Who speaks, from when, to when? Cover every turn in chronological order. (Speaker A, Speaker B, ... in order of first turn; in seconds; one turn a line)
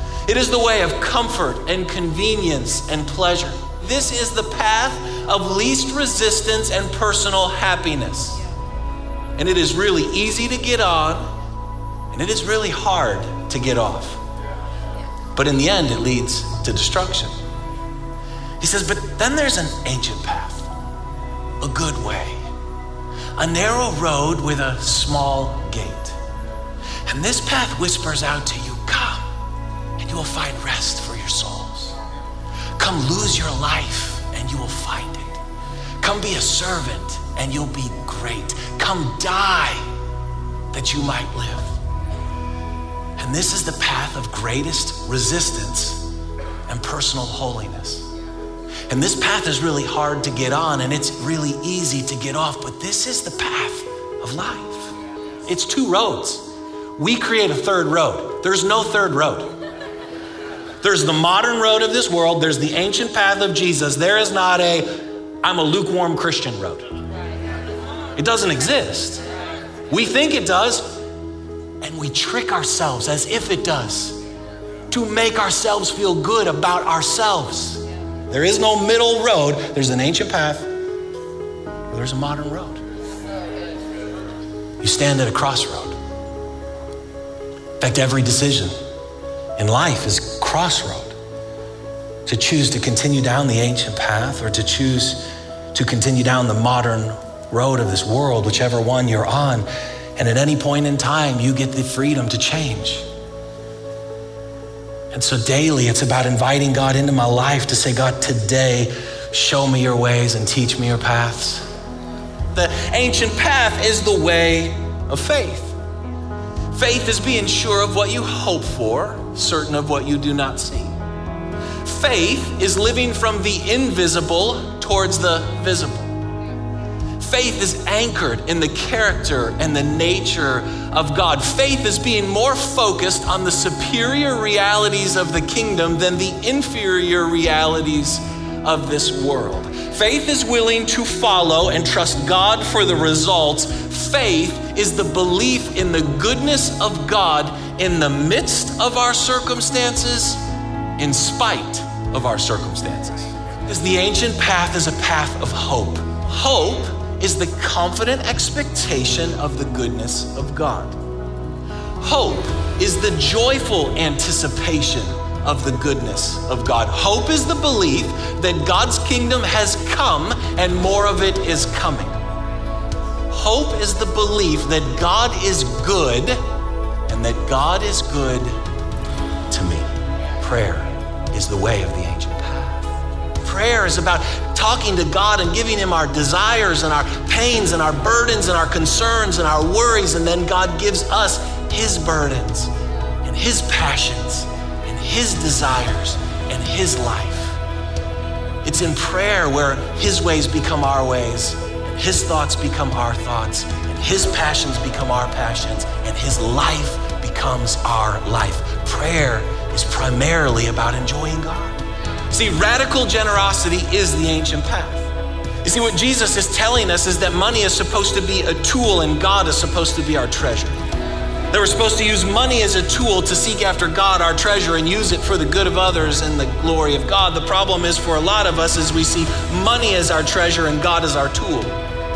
Speaker A: 0.2-8.4
Speaker A: 9.4-11.3
Speaker A: 12.1-14.2
Speaker A: 15.3-17.4
Speaker A: 18.6-20.7
Speaker A: 21.6-22.5
Speaker A: 23.4-26.2
Speaker A: 27.1-29.2
Speaker A: 30.0-32.0
Speaker A: 32.8-35.4
Speaker A: 36.0-39.8
Speaker A: 40.7-41.8
Speaker A: 43.2-46.1
Speaker A: 46.7-48.1
Speaker A: 48.9-54.9
Speaker A: 55.5-59.5
Speaker A: 60.8-66.9
Speaker A: 68.2-69.2
Speaker A: 69.9-71.0
Speaker A: 71.8-74.2
Speaker A: 74.9-80.8
Speaker A: 81.9-82.8
Speaker A: 84.8-86.0
Speaker A: 87.8-88.7
Speaker A: 89.6-91.2
Speaker A: 92.2-103.1
Speaker A: 105.1-111.7
Speaker A: 112.5-115.8
Speaker A: 116.7-121.0
Speaker A: 121.8-126.2
Speaker A: 127.2-150.4
Speaker A: 151.0-161.0
Speaker A: 162.0-172.2
Speaker A: 173.3-176.4
Speaker A: 177.1-178.6
Speaker A: 179.5-179.9
Speaker A: 180.4-182.9
Speaker A: 183.4-192.7
Speaker A: 193.2-197.6
Speaker A: 198.6-215.1
Speaker A: 215.6-220.8
Speaker A: 221.5-231.8